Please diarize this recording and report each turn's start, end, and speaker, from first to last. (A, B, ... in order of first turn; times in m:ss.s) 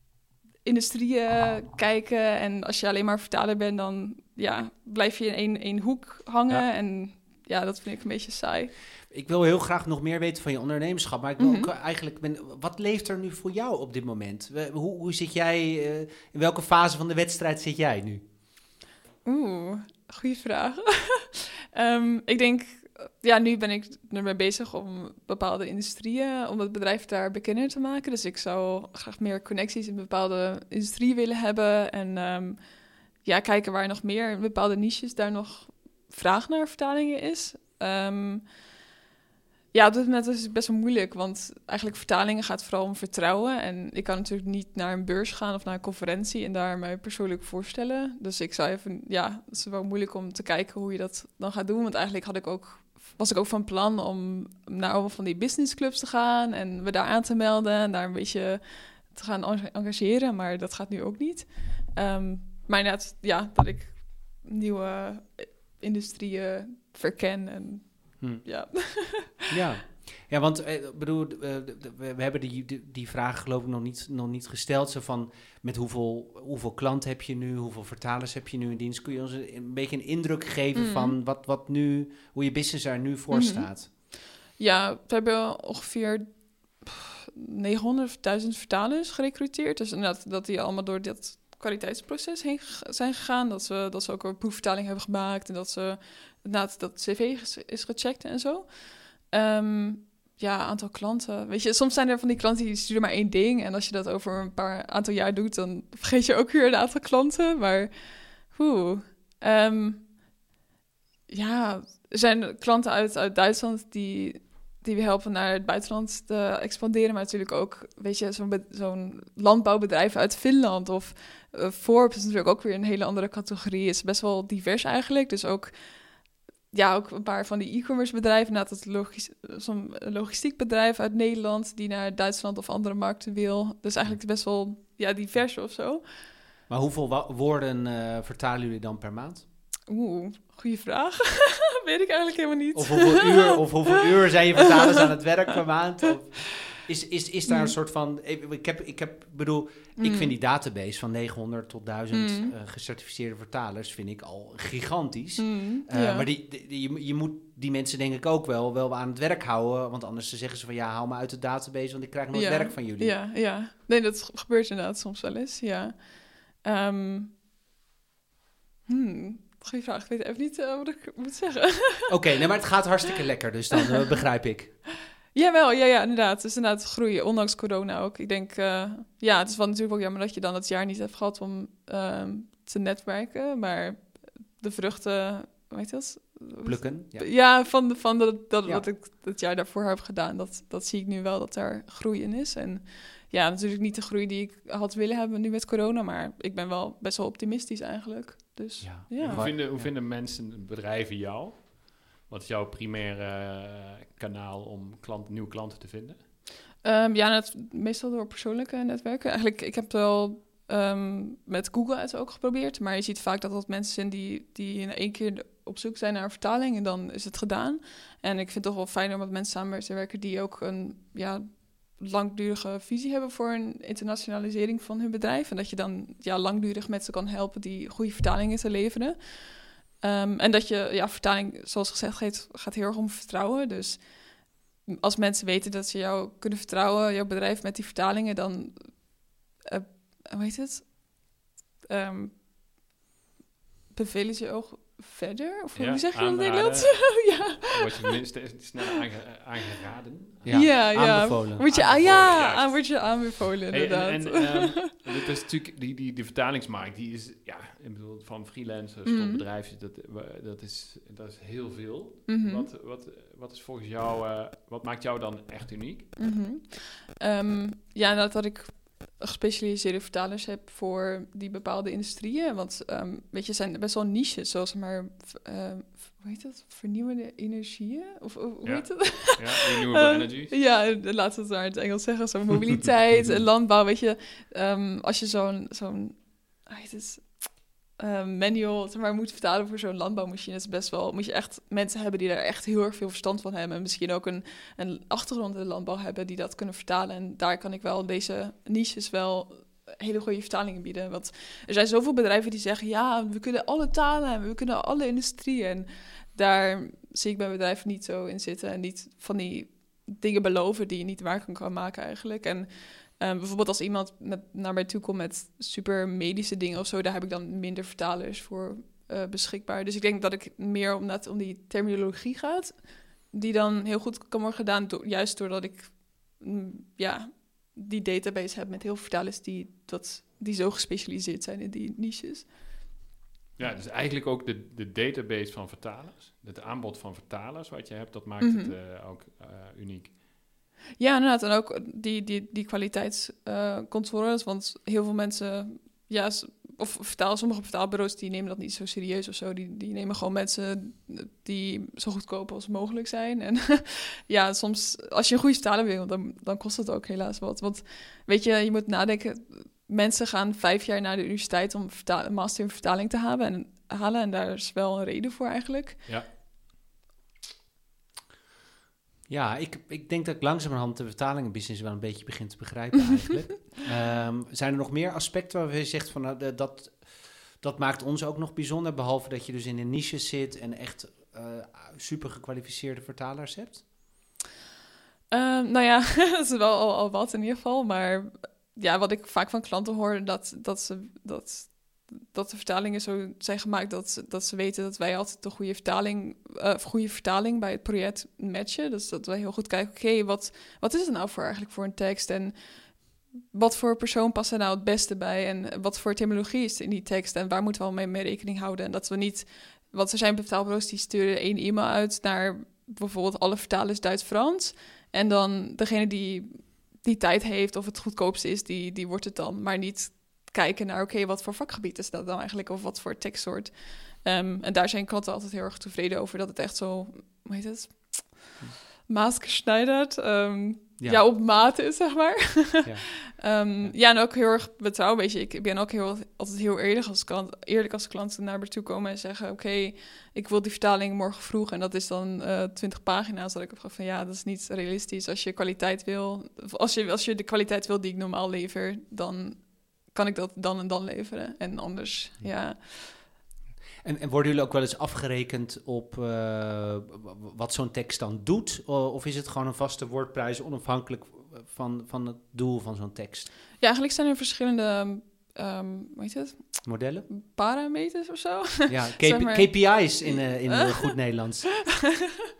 0:00.6-0:08.7 A
0:09.1-0:18.2 B
0:11.4-0:11.7 A
0:19.2-0:32.6 A
0:33.2-0:38.5 A
0:39.7-1:09.6 A
1:08.2-1:08.4 B
1:09.5-1:23.9 B
1:20.7-1:21.1 A
1:23.3-1:23.9 A
1:24.6-1:50.1 A
1:51.3-2:05.7 A
2:06.7-2:16.0 A
2:16.7-2:19.4 B
2:19.9-2:24.0 A
2:22.7-2:43.2 B
2:24.5-2:25.1 A
2:27.5-2:27.7 A
2:30.0-2:30.3 A
2:32.1-2:32.5 A
2:35.4-2:36.3 A
2:42.3-2:47.3 A
2:48.9-2:52.1 A
2:52.1-2:54.8 B
2:55.3-3:19.5 A
3:06.6-3:07.3 B
3:18.8-3:19.9 B
3:19.2-3:26.2 C
3:26.8-3:54.2 A
3:54.8-4:01.4 A
4:01.9-4:02.4 A
4:03.9-4:08.0 A
4:05.8-4:10.8 C
4:10.4-4:11.7 B
4:10.5-4:14.9 A
4:11.6-4:26.1 C
4:19.0-4:19.4 A
4:22.3-4:22.7 A
4:26.2-5:32.5 A
4:38.6-4:40.6 C
5:33.6-5:40.2 C
5:38.4-5:38.7 A
5:41.0-6:06.0 A
6:09.3-6:23.8 B
6:25.3-7:33.2 A
7:11.0-7:11.2 B
7:12.8-7:13.1 B
7:34.0-7:43.5 B
7:43.8-7:51.3 A
7:46.8-7:47.3 B
7:48.9-7:52.0 B
7:51.9-7:52.4 A